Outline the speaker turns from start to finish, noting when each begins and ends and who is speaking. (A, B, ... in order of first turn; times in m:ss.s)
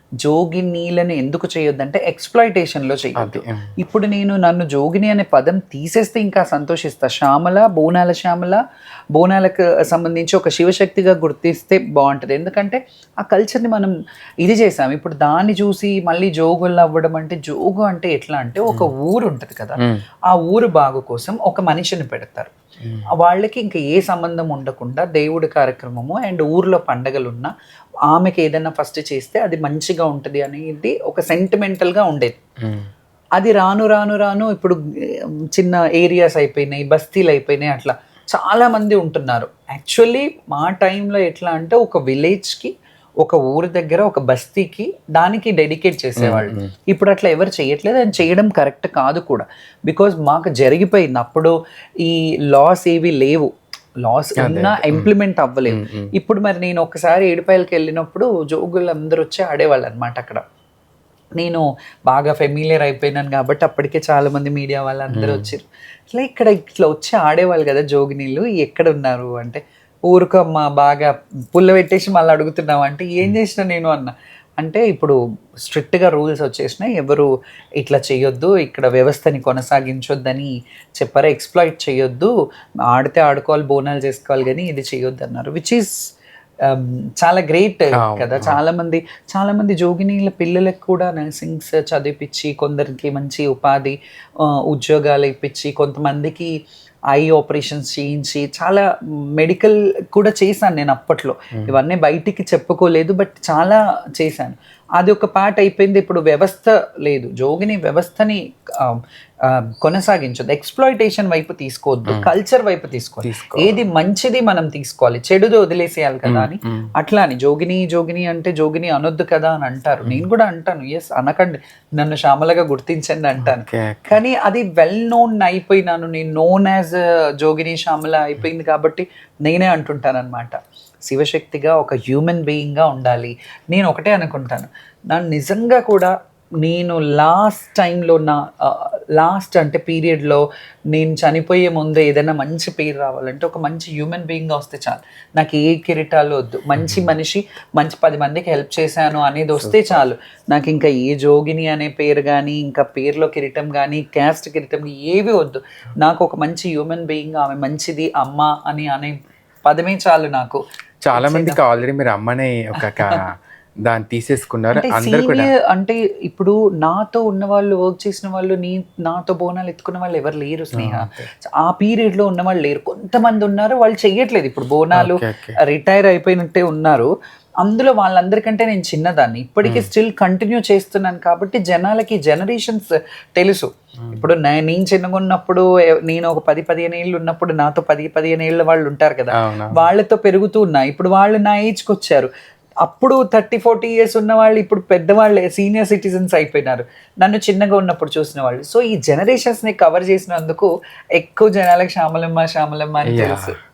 0:00.2-0:08.6 A
0:03.2-0:03.7 B
0:09.1-0:22.5 A
0:22.8-0:23.1 B
0:23.2-0:27.5 A
0:28.1-0:32.4 A
0:32.6-0:32.9 B
0:33.4-0:53.5 A
0:46.2-0:46.7 B
0:54.0-1:00.4 A
0:54.4-0:55.1 B
0:55.7-0:56.1 B
1:01.4-1:22.3 A
1:05.1-1:05.5 B
1:22.9-1:25.9 A
1:26.7-1:36.5 A
1:28.0-1:28.6 B
1:37.1-1:38.8 A
1:39.4-2:16.1 A
1:53.2-1:53.8 B
1:56.2-1:56.9 B
2:03.4-2:04.2 B
2:16.6-2:40.6 A
2:26.8-2:27.1 B
2:29.6-2:30.0 B
2:41.0-2:43.3 B
2:41.1-2:41.6 A
2:43.8-2:45.5 B
2:44.7-2:57.1 A
2:50.7-2:51.2 B
2:54.9-2:55.6 B
2:57.6-3:12.3 A
2:59.6-2:59.9 B
3:09.4-3:09.8 B
3:12.8-3:23.5 A
3:23.1-3:23.5 B